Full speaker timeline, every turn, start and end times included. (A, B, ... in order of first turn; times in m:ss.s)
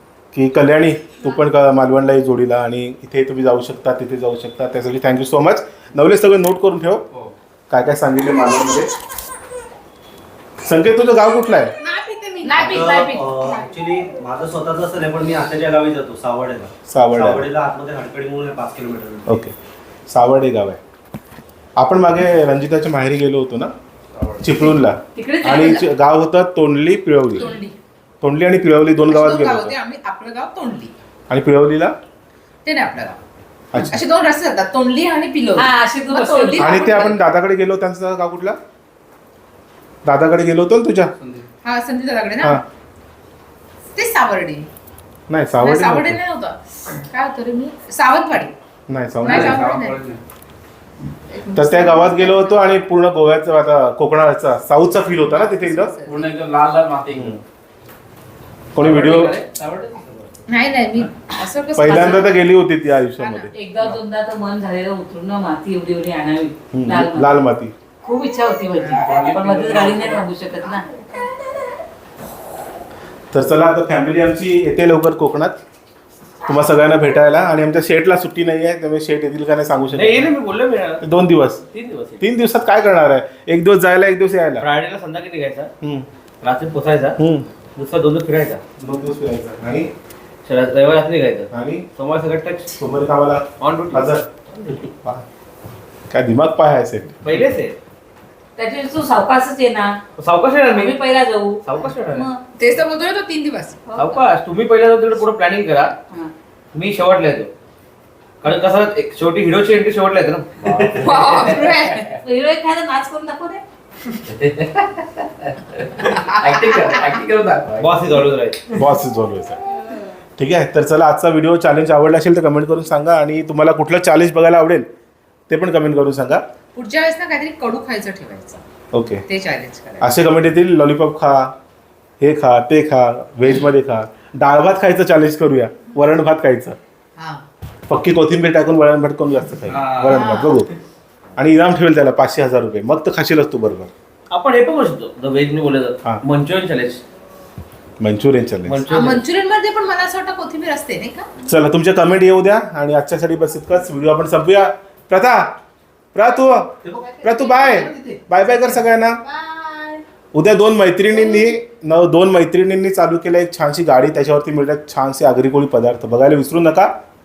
0:00.3-0:07.0 A
0:07.7-0:08.9 A
0:10.6-0:11.7 A
0:11.8-0:13.6 B
0:12.4-0:19.4 C
0:16.9-0:17.4 A
0:19.3-0:19.5 A
0:20.1-0:20.8 A
0:21.8-0:23.7 A
0:24.2-0:24.4 D
0:24.4-0:27.5 A
0:25.1-0:25.6 E
0:25.4-0:25.8 B
0:27.4-0:27.7 B
0:28.2-0:29.7 A
0:29.1-0:30.9 B
0:31.3-0:31.9 A
0:32.6-0:33.2 B
0:33.7-0:34.0 A
0:33.8-0:37.2 B
0:35.6-0:36.7 E
0:36.6-0:38.6 A
0:40.0-0:41.1 A
0:41.2-0:41.5 D
0:41.6-0:42.6 B
0:43.9-0:44.7 B
0:45.3-0:46.2 A
0:45.6-0:48.5 B
0:48.9-0:49.6 A
0:49.2-0:50.2 D
0:49.2-0:50.0 B
0:51.3-0:52.7 B
0:51.6-0:55.9 A
0:55.2-0:56.3 B
0:56.0-0:57.4 D
0:57.1-0:57.4 A
0:58.7-0:59.4 A
0:58.8-1:00.3 D
1:00.5-1:02.3 B
1:01.8-1:04.0 A
1:03.2-1:03.5 B
1:03.5-1:07.3 E
1:06.7-1:07.7 A
1:08.0-1:10.8 E
1:08.8-1:10.3 D
1:13.3-1:15.6 A
1:16.4-1:20.3 A
1:19.9-1:21.0 F
1:21.0-1:21.6 A
1:21.7-1:22.2 F
1:22.2-1:24.6 A
1:24.6-1:25.7 F
1:26.4-1:27.2 F
1:27.2-1:27.4 A
1:27.8-1:28.6 F
1:28.8-1:29.9 A
1:30.4-1:32.8 F
1:31.5-1:31.8 A
1:32.8-1:35.2 A
1:33.6-1:34.1 F
1:36.1-1:37.2 A
1:37.2-1:37.8 F
1:38.6-1:40.0 E
1:40.2-1:41.0 F
1:40.7-1:41.6 E
1:41.6-1:42.3 F
1:42.1-1:42.4 E
1:42.6-1:43.8 B
1:43.9-1:44.2 E
1:44.0-1:45.9 F
1:46.7-1:47.5 F
1:48.4-1:50.8 F
1:50.6-1:51.8 D
1:51.0-1:52.1 B
1:52.1-1:53.6 E
1:54.3-1:57.9 D
1:57.8-1:58.7 F
1:58.7-1:59.6 A
2:00.4-2:04.8 A
2:05.5-2:06.4 A
2:06.7-2:08.6 B
2:08.9-2:09.2 A
2:09.2-2:10.1 B
2:10.0-2:11.5 A
2:12.2-2:16.8 A
2:17.2-2:17.4 B
2:17.9-2:20.7 A
2:19.8-2:20.1 F
2:19.8-2:20.1 D
2:20.1-2:20.6 B
2:21.4-2:23.9 A
2:24.3-2:27.0 F
2:28.0-2:28.8 A
2:28.6-2:29.2 F
2:28.9-2:31.3 B
2:31.4-2:35.5 A
2:36.1-2:39.2 A
2:36.8-2:38.2 C
2:40.3-2:46.9 A